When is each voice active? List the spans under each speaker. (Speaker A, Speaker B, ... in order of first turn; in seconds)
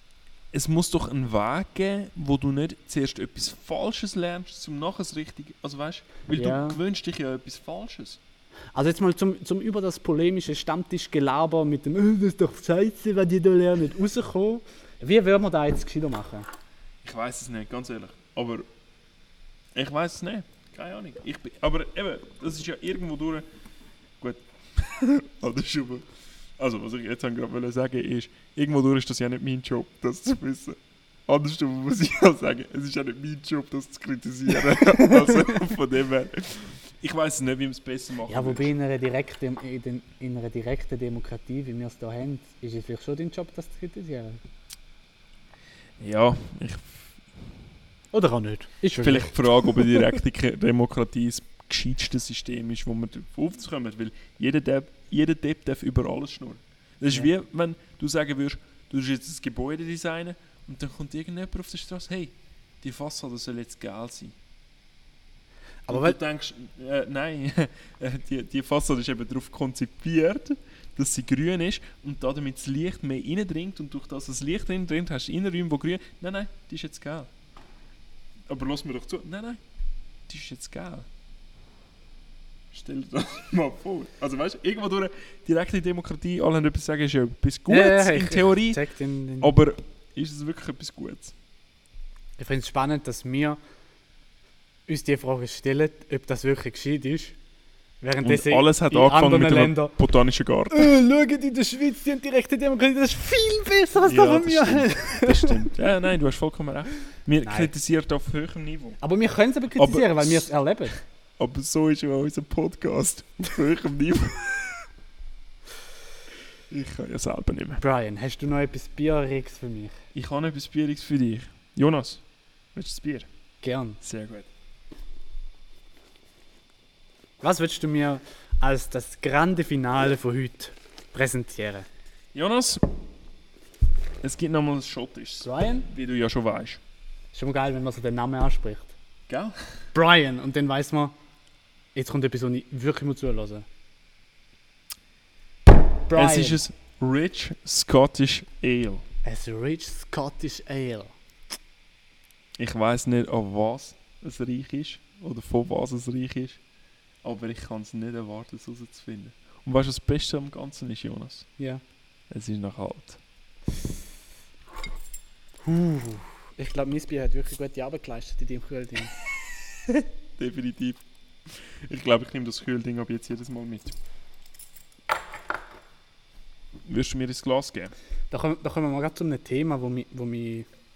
Speaker A: 0.5-8.2, 17.0-18.6, 19.7-23.4, 24.2-38.7, 46.0-47.1, 49.0-64.3, 65.9-77.3, 78.5-79.6, 80.3-81.1, 82.7-88.8, 89.4-91.3, 98.2-100.9, 104.0-109.0, 109.8-110.5, 111.4-114.9, 116.7-117.8, 120.1-122.2, 122.7-123.3, 124.0-124.5, 132.3-132.8, 134.2-136.8, 139.3-139.6, 146.1-149.0, 152.6-156.6, 157.2-161.5, 162.3-163.2, 170.4-174.0, 176.8-177.9
Speaker B: 6.3-6.8, 8.7-16.5, 34.8-35.6, 38.3-44.4, 48.1-50.1, 65.9-66.2, 87.7-89.5, 92.4-93.6, 94.9-97.3, 98.0-100.0, 100.7-105.7, 107.4-107.7, 109.0-111.0, 117.8-119.9, 123.6-124.0, 127.4-131.9, 135.4-135.9, 137.3-138.9, 139.9-141.1, 141.9-143.6, 146.1-146.6, 149.2-151.1, 165.6-169.2, 178.3-180.7